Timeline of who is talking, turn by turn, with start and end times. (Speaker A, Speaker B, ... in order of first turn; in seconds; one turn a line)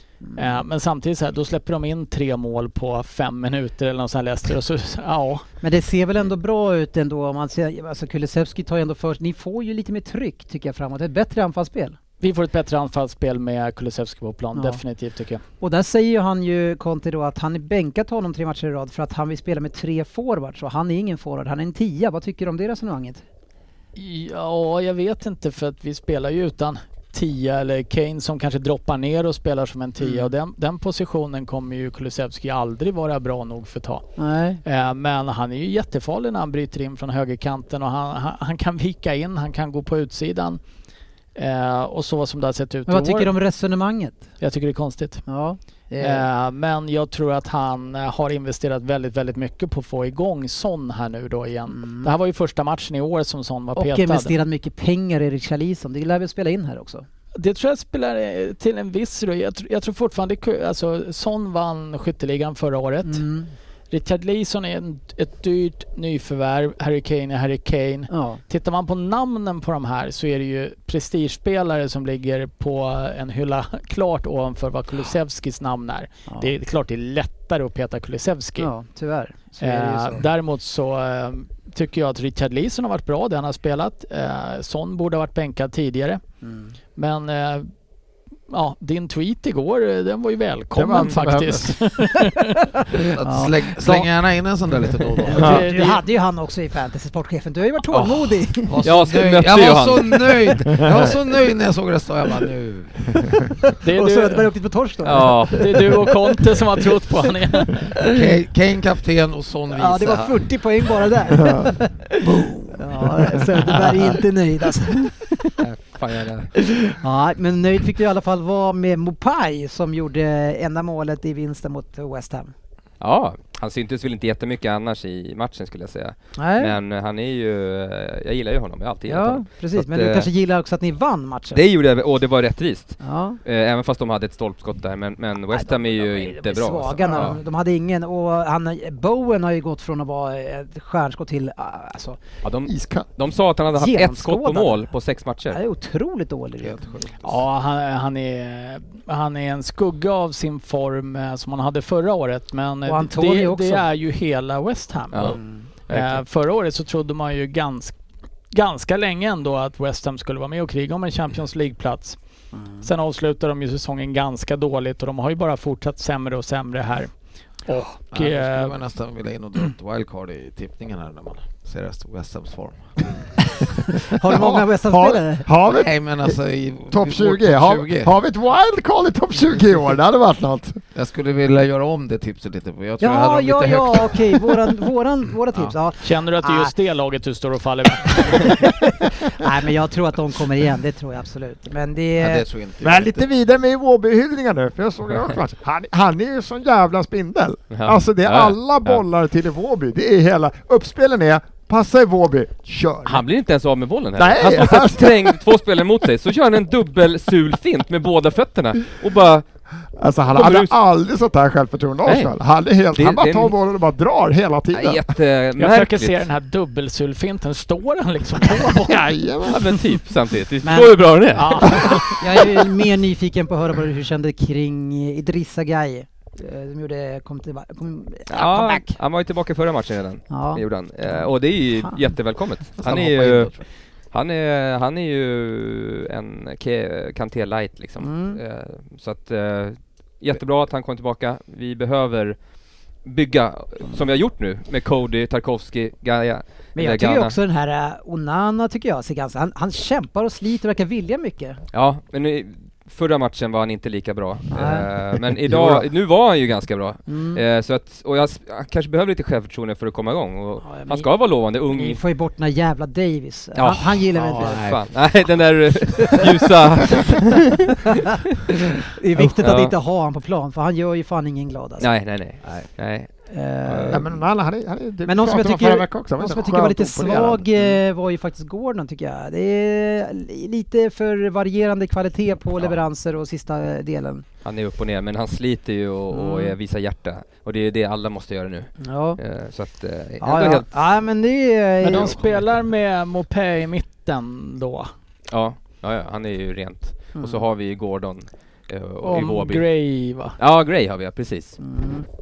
Speaker A: 0.2-0.6
Speaker B: 0.4-5.4
Speaker A: 5.6-12.0
Speaker B: 12.2-15.4
Speaker A: 14.5-14.8
Speaker A: 15.6-23.2
Speaker B: 23.9-34.0
Speaker A: 30.0-30.3
Speaker A: 34.2-34.6
Speaker B: 34.6-40.6
Speaker B: 41.3-43.3
Speaker A: 42.9-44.2
Speaker B: 44.4-45.2
Speaker A: 45.3-46.3
Speaker B: 46.0-54.3
Speaker A: 51.7-52.1
Speaker A: 53.7-57.0
Speaker B: 57.4-63.2
Speaker A: 63.0-63.5
Speaker B: 63.9-78.7
Speaker A: 68.1-68.4
Speaker A: 76.3-76.5
Speaker A: 78.6-80.2
Speaker B: 79.6-86.2
Speaker A: 86.4-86.8
Speaker B: 87.0-87.7
Speaker B: 88.5-92.6
Speaker C: 90.7-91.6
Speaker D: 92.9-95.6
Speaker A: 93.2-94.1
Speaker A: 95.2-98.8
Speaker B: 95.3-96.0
Speaker E: 97.9-100.6
Speaker D: 98.7-103.2
Speaker A: 103.7-106.3
Speaker B: 103.8-104.5
Speaker E: 105.0-105.7
Speaker B: 105.5-107.9
Speaker A: 107.6-108.3
Speaker D: 108.1-110.5
Speaker A: 109.7-115.6
Speaker C: 111.4-111.7
Speaker D: 112.2-114.0
Speaker E: 115.6-116.5
Speaker A: 116.6-122.5
Speaker E: 123.0-130.3
Speaker A: 126.4-126.7
Speaker A: 129.1-131.6
Speaker E: 131.5-137.4
Speaker A: 133.0-133.4
Speaker A: 135.5-142.2
Speaker E: 142.4-145.6
Speaker C: 142.7-143.1
Speaker A: 143.7-144.9
Speaker A: 145.5-146.9
Speaker D: 146.6-147.4
Speaker B: 147.2-158.0
Speaker A: 152.9-153.9
Speaker E: 155.1-156.2
Speaker A: 155.2-155.7
Speaker B: 158.5-162.2
Speaker A: 162.5-162.9
Speaker B: 162.8-167.1
Speaker B: 167.7-168.7
Speaker D: 168.1-173.2
Speaker A: 174.0-175.5
Speaker C: 174.3-176.4
Speaker D: 175.7-178.1
Speaker C: 176.9-180.8
Speaker D: 180.9-184.8
Speaker A: 183.0-186.7
Speaker B: 186.0-188.6
Speaker A: 188.1-192.4
Speaker D: 192.2-193.2
Speaker C: 192.8-203.2
Speaker E: 197.7-199.0
Speaker E: 203.1-209.4
Speaker C: 204.2-205.4
Speaker C: 210.0-215.0
Speaker E: 210.3-210.7
Speaker E: 212.1-212.3
Speaker E: 212.9-213.6
Speaker E: 214.7-216.2
Speaker B: 215.6-219.1
Speaker C: 218.8-219.7
Speaker E: 219.4-222.4
Speaker A: 220.6-221.0
Speaker B: 221.3-222.1
Speaker A: 221.6-228.9
Speaker E: 228.3-233.6
Speaker A: 230.3-231.3
Speaker D: 232.8-233.6
Speaker E: 234.1-242.4
Speaker A: 238.0-238.4
Speaker E: 243.1-247.4
Speaker A: 246.8-251.6
Speaker E: 251.7-262.0
Speaker A: 254.5-254.9
Speaker C: 255.5-255.8
Speaker A: 257.1-257.4
Speaker A: 260.6-261.1
Speaker A: 261.7-264.7
Speaker E: 263.6-267.9
Speaker D: 264.1-264.9
Speaker A: 268.8-271.9
Speaker E: 269.2-269.7
Speaker E: 271.8-273.1
Speaker D: 272.4-272.7
Speaker A: 273.3-274.1
Speaker E: 273.6-274.0
Speaker C: 273.9-277.7
Speaker A: 275.1-284.2
Speaker E: 284.4-290.7
Speaker A: 286.1-286.6
Speaker A: 288.8-289.2
Speaker A: 290.2-292.2
Speaker B: 291.8-294.9
Speaker E: 295.3-299.6
Speaker A: 297.1-297.4
Speaker B: 299.0-300.4
Speaker E: 300.4-301.6
Speaker A: 301.6-302.1